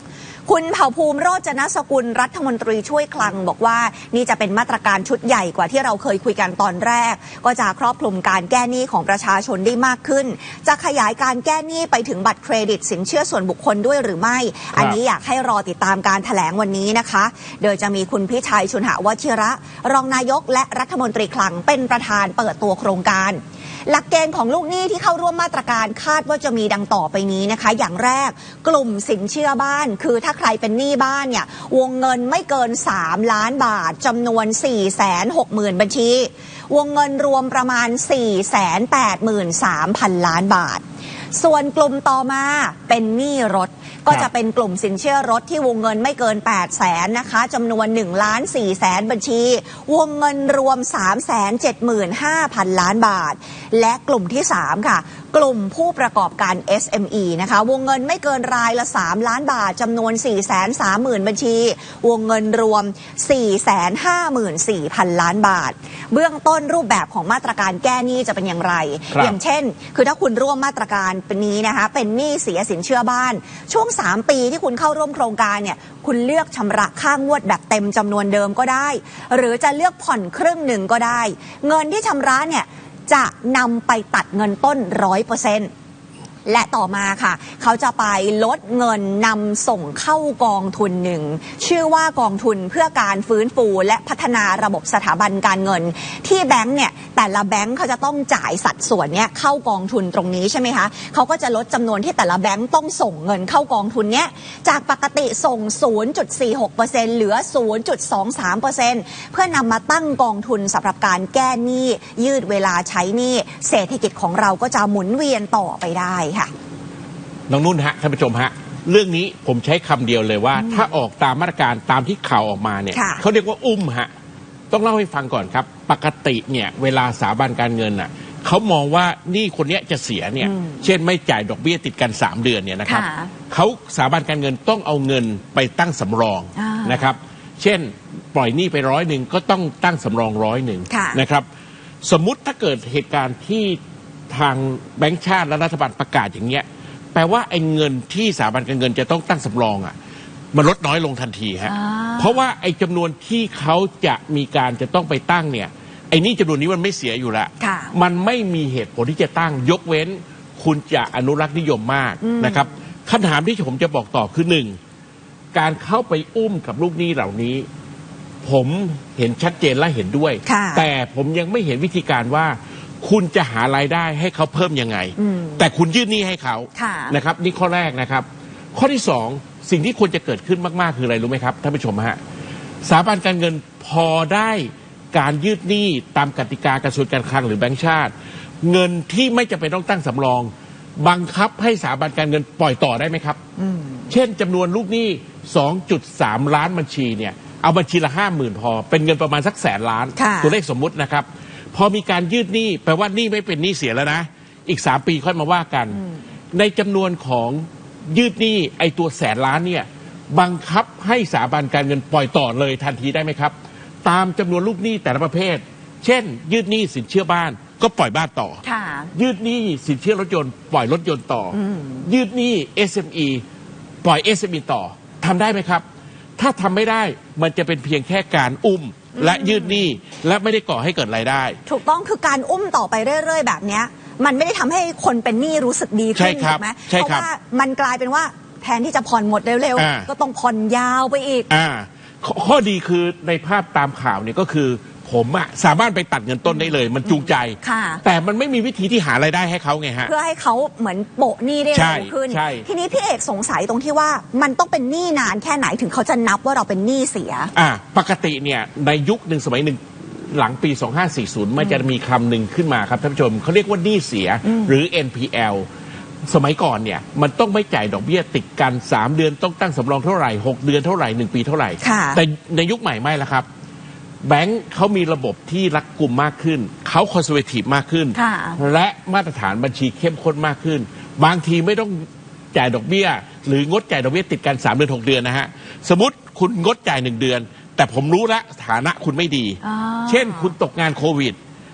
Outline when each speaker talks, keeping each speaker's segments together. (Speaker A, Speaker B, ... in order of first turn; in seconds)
Speaker A: 0.5-40.8, 41.3-85.7, 86.5-116.5, 120.5-120.9, 122.9-123.2, 130.4-130.8, 132.9-133.3, 136.6-137.1, 140.9-141.2, 151.7-152.4, 157.6-157.9, 162.2-162.7, 170.4-170.9, 175.2-175.6, 176.8-177.2, 193.6-194.1, 200.2-200.6, 218.6-219.1, 221.5-222.1, 229.2-229.9, 231.7-241.5, 246.5-248.0, 250.1-257.5, 264.4-264.7, 271.8-272.2, 278.1-278.6, 289.6-290.5
Speaker B: 117.5-124.1, 124.7-141.5, 142.0-143.8, 144.3-149.9, 150.5-164.8, 165.5-167.7, 168.4-182.2, 182.8-193.4, 194.1-206.0, 206.5-218.6, 219.1-223.4, 224.0-225.8, 226.4-231.6, 236.2-237.3, 239.8-240.1, 241.5-250.1, 251.7-252.7, 257.6-265.7, 266.3-273.5, 274.2-291.4